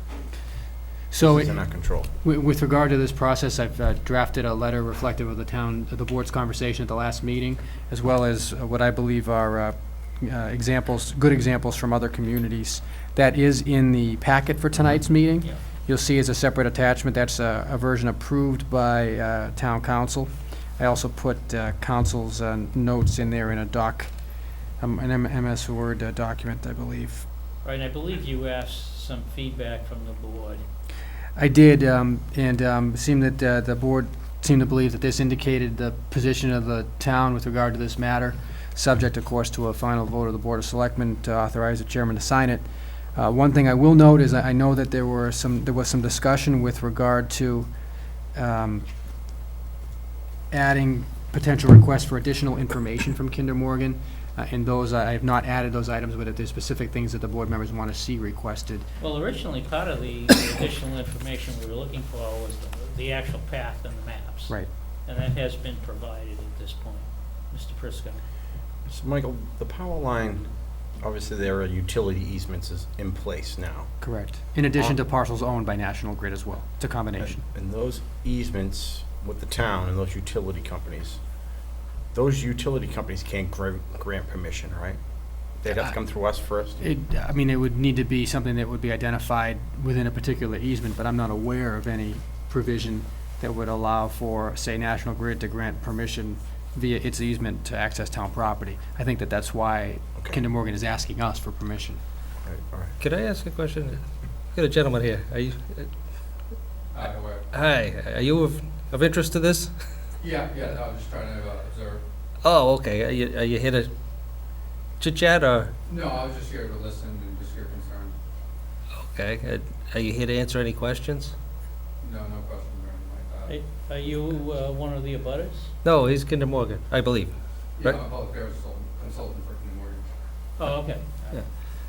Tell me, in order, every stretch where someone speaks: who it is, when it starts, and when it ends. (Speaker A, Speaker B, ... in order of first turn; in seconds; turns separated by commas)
Speaker A: 1.1-1.6, Speaker B: 1.2-2.1, Speaker A: 2.1-24.1, Speaker A: 24.8-27.3, Speaker C: 27.6-30.6, Speaker A: 31.4-47.7, Speaker A: 48.4-48.9, Speaker A: 50.5-58.9, Speaker C: 59.0-68.2, Speaker B: 68.9-70.5, Speaker B: 71.0-73.9, Speaker A: 74.0-77.5, Speaker B: 77.2-81.2, Speaker B: 82.1-85.0, Speaker B: 85.6-86.9, Speaker A: 86.8-102.0, Speaker B: 100.2-100.4, Speaker B: 102.5-102.9, Speaker D: 103.0-104.0, Speaker D: 104.5-105.9, Speaker E: 106.9-107.5, Speaker D: 107.5-109.7, Speaker E: 110.2-112.0, Speaker D: 112.4-113.9, Speaker D: 115.0-115.7, Speaker E: 115.9-118.1, Speaker D: 119.0-121.3, Speaker E: 122.0-123.6, Speaker C: 123.5-125.7, Speaker D: 125.8-128.0, Speaker E: 127.8-130.1, Speaker C: 130.6-131.4